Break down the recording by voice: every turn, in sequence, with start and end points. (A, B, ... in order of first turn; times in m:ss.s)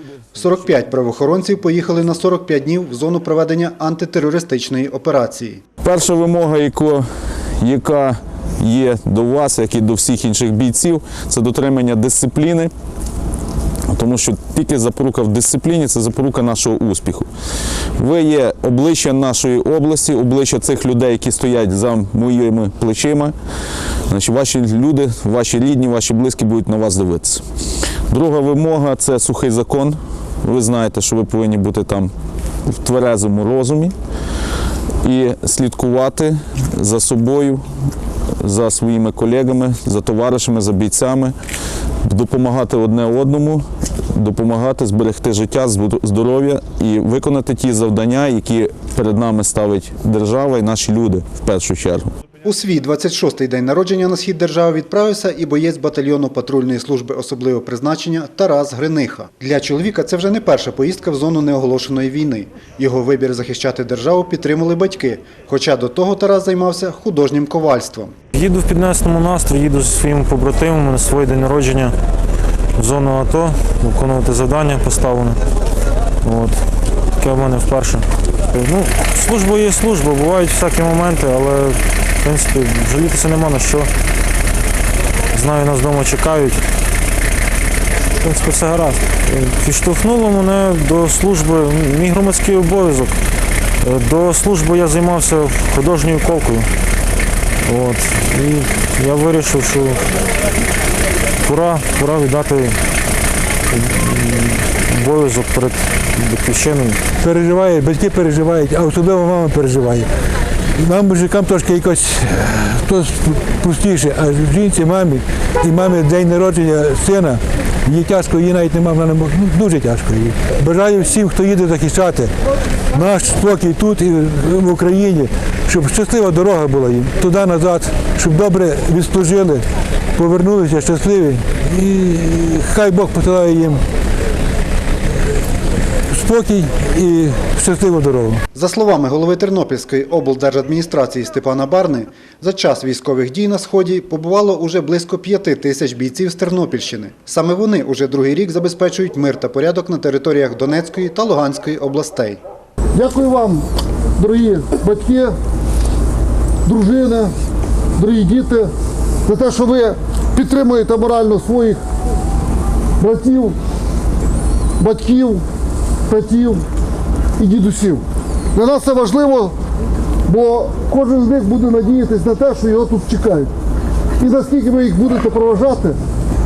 0:00.3-0:05.6 A
0:05.8-0:07.0 B
0:07.6-0:12.7 B
0:13.9-0:17.3 B
0:18.0-0:23.3 B
0:24.1-0:27.4 B
0:28.1-0:32.1 B
0:32.6-0:33.9 B
0:35.0-0:37.6 B
0:38.4-0:41.3 B
0:42.0-0:52.1 B
0:52.4-1:08.1 A
1:08.3-1:11.9 C
1:12.8-1:15.4 C
1:16.2-1:16.6 C
1:17.2-1:23.9 C
1:25.3-1:26.6 C
1:28.2-1:33.2 C
1:33.8-1:36.7 C
1:37.6-1:40.0 C
1:41.4-1:42.8 C
1:43.7-1:47.0 C
1:47.2-1:50.1 D
1:50.7-2:02.3 D
2:02.9-2:09.6 D
2:10.2-2:13.8 D
2:16.1-2:18.4 D
2:18.5-2:32.4 A
2:32.9-2:35.3 E
2:36.6-2:37.3 E
2:38.0-2:38.7 E
2:39.2-2:41.8 E
2:43.0-2:43.6 E
2:44.8-2:45.4 E
2:46.1-2:46.6 E
2:47.4-2:49.5 E
2:50.2-2:53.5 E
2:54.2-2:56.0 E